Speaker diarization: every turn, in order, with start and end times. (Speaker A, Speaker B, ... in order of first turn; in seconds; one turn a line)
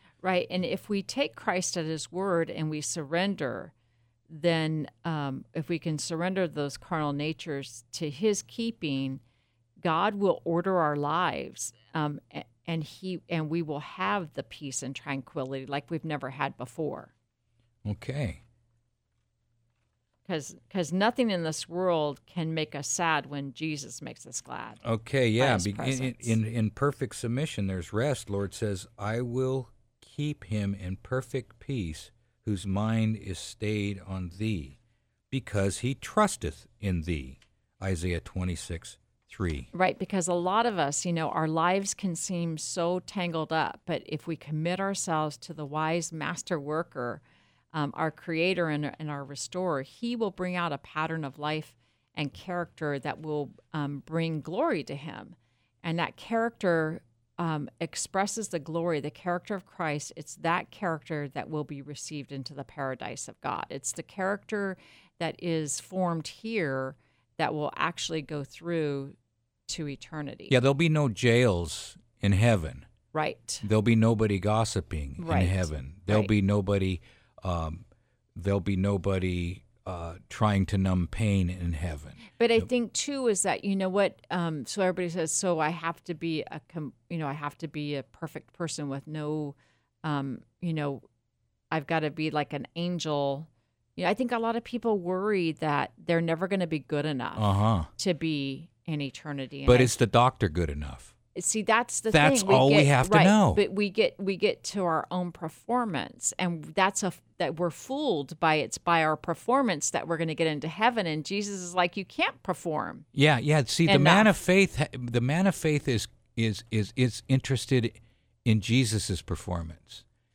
Speaker A: 0.2-3.7
Speaker A: 4.3-9.2
Speaker A: 9.8-17.1
Speaker B: 17.9-18.4
Speaker A: 20.3-24.8
Speaker B: 24.8-34.8
Speaker A: 25.4-26.4
Speaker B: 35.3-39.7
Speaker A: 39.7-47.2
Speaker A: 47.7-69.2
Speaker A: 69.7-70.6
Speaker B: 70.5-72.9
Speaker A: 73.1-73.7
Speaker B: 73.6-77.8
Speaker A: 75.2-76.3
Speaker B: 78.3-82.2
Speaker A: 82.4-91.0
Speaker A: 91.7-99.9
Speaker B: 97.4-97.9
Speaker B: 99.7-101.1
Speaker A: 101.3-113.0
Speaker B: 102.1-103.6
Speaker B: 113.1-120.0
Speaker A: 113.9-114.3